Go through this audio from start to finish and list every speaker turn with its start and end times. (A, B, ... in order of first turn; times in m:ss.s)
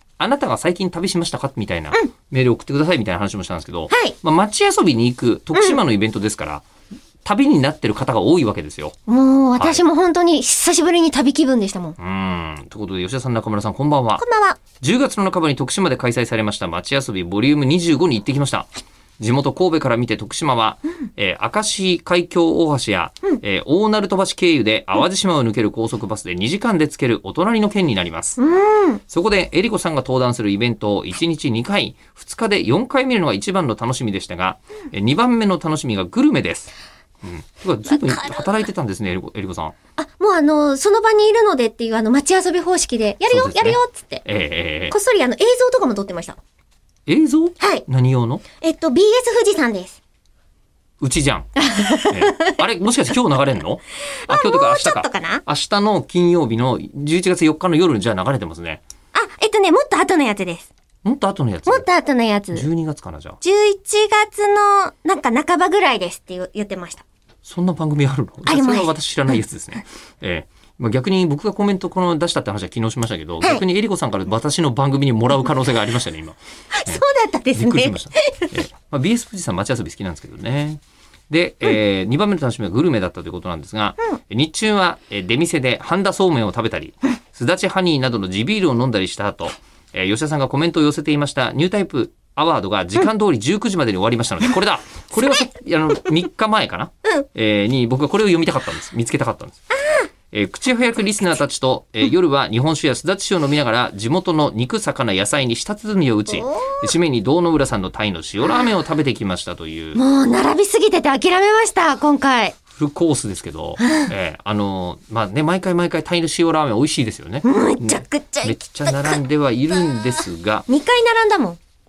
0:00.2-0:06.6 A
0:03.9-0:04.2 B
0:07.2-0:09.0 A
0:09.1-0:12.0 B
0:12.0-0:14.2 A
0:14.2-0:14.6 B
0:14.8-0:28.4 A
0:28.4-0:29.0 B
0:29.1-0:36.7 A
0:37.2-0:39.7 A
0:37.9-0:38.5 B
0:40.0-0:44.2 B
0:43.3-0:44.9 A
0:44.9-0:46.4 B
0:47.1-0:48.4 A
0:47.6-0:47.8 B
0:48.6-0:50.0 B
0:51.0-0:58.8 A
0:51.6-0:52.5 B
0:54.2-0:55.4 B
0:59.1-1:00.7 B
1:01.0-1:01.8 A
1:01.7-1:02.7 B
1:02.5-1:03.4 A
1:03.4-1:07.0 B
1:07.4-1:17.0 A
1:08.4-1:08.9 B
1:16.7-1:18.5 B
1:17.5-1:39.6 A
1:40.3-1:50.0 A
1:46.3-1:46.9 B
1:49.9-1:52.5 B
1:52.7-2:00.7 A
1:53.8-1:54.1 B
1:57.4-1:59.2 B
2:00.7-2:01.6 B